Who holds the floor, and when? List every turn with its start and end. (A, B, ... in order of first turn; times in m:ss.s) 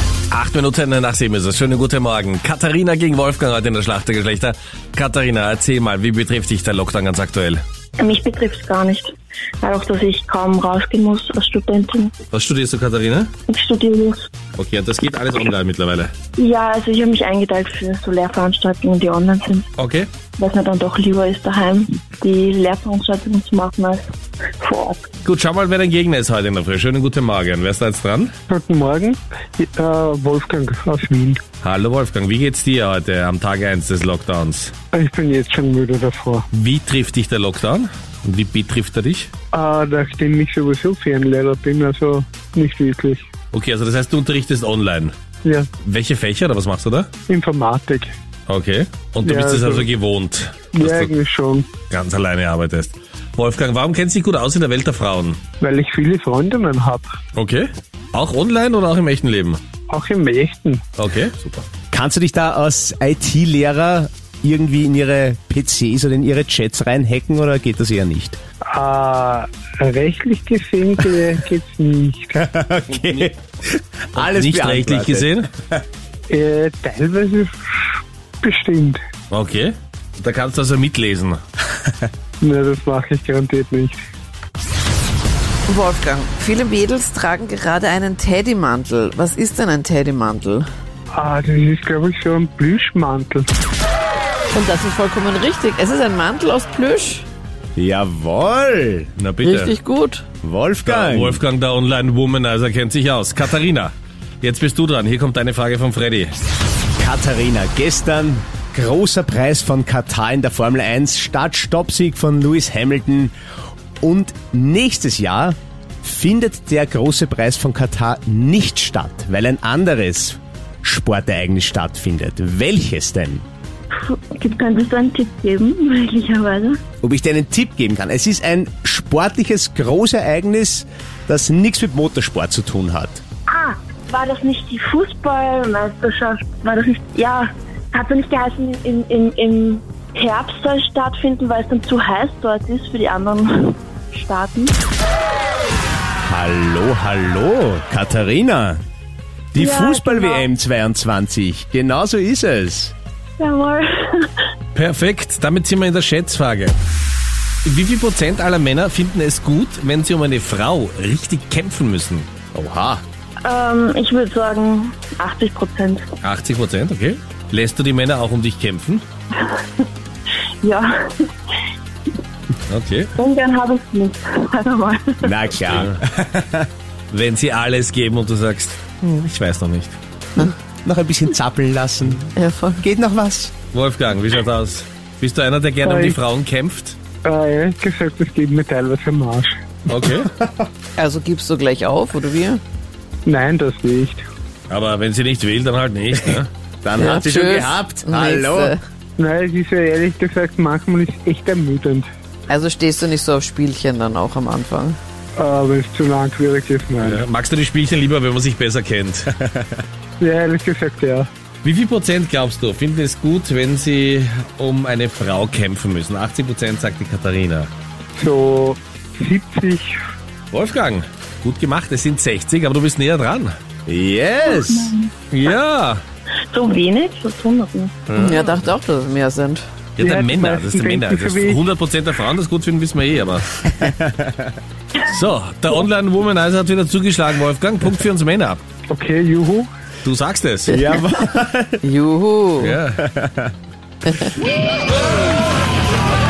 0:00.3-0:07.6 A
0:08.0-0:12.1 B
0:12.3-0:13.3 A
0:13.5-0:14.3 B
0:14.6-0:16.1 A
0:16.4-0:19.6 B
0:19.8-0:20.1 A
0:20.4-0:24.0 B
0:24.6-0:25.1 B
0:25.2-0:28.3 A
0:28.5-0:31.4 C
0:31.6-0:34.7 A
0:34.9-0:36.4 C
0:36.5-0:39.3 A
0:39.5-0:43.2 C
0:43.5-0:45.1 A
0:45.4-0:45.7 C
0:45.8-0:47.1 A
0:47.3-0:48.1 C
0:48.5-0:51.1 A
0:49.2-0:49.9 C
0:50.7-0:51.7 C
0:51.9-0:55.4 A
0:55.6-0:57.0 C
0:57.3-0:59.6 A
0:59.9-1:00.8 C
1:01.0-1:01.7 A
1:01.9-1:08.4 D
1:08.6-1:12.4 C
1:12.4-1:15.8 D
1:12.9-1:13.3 A
1:14.2-1:15.5 A
1:16.3-1:17.5 C
1:18.4-1:19.0 C
1:19.3-1:21.4 A
1:22.4-1:24.0 C
1:25.7-1:30.7 E
1:31.1-1:33.5 C
1:34.5-1:37.2 E
1:37.8-1:39.1 D
1:39.2-1:39.7 A
1:39.4-1:40.2 E
1:40.4-1:41.4 D
1:40.8-1:46.3 A
1:47.0-1:53.3 D
1:54.0-2:03.4 D
2:03.9-2:06.8 B
2:07.0-2:13.2 D
2:13.5-2:24.7 B
2:26.2-2:28.8 D
2:29.5-2:32.9 D
2:29.5-2:30.5 B
2:33.4-2:34.3 B
2:34.7-2:36.8 A
2:37.6-2:42.3 A
2:42.5-2:43.0 D
2:43.4-2:46.1 B
2:46.2-2:49.0 A
2:49.4-2:49.8 B
2:50.6-2:50.9 B
2:52.7-2:53.1 A
2:53.2-2:55.7 B
2:55.2-2:56.7 D
2:55.7-2:56.0 A
2:57.1-3:00.0 A
3:00.8-3:03.5 D
3:02.4-3:02.8 E
3:03.7-3:07.0 A
3:05.8-3:06.2 C
3:07.2-3:09.5 C
3:09.9-3:10.3 A
3:10.2-3:10.6 D
3:11.0-3:12.6 E
3:13.2-3:14.2 C
3:14.7-3:16.5 A
3:16.8-3:18.7 D
3:16.9-3:18.8 E
3:19.2-3:22.1 C
3:22.5-3:25.0 E
3:25.4-3:27.2 C
3:27.0-3:29.3 A
3:29.4-3:29.7 D
3:30.2-3:31.3 C
3:31.6-3:37.7 A
3:38.1-3:39.9 C
3:40.5-3:43.5 A
3:43.8-3:44.9 D
3:44.4-3:45.1 B
3:45.3-3:46.0 A
3:46.5-3:48.2 B
3:48.1-3:48.5 A
3:48.1-3:49.6 E
3:50.0-3:53.5 A
3:50.0-3:51.6 C
3:53.7-3:54.6 D
3:55.0-3:58.6 A
3:58.9-3:59.7 C
4:00.0-4:00.8 A
4:00.7-4:01.8 D
4:01.8-4:02.8 E
4:02.6-4:03.0 A
4:03.0-4:03.5 D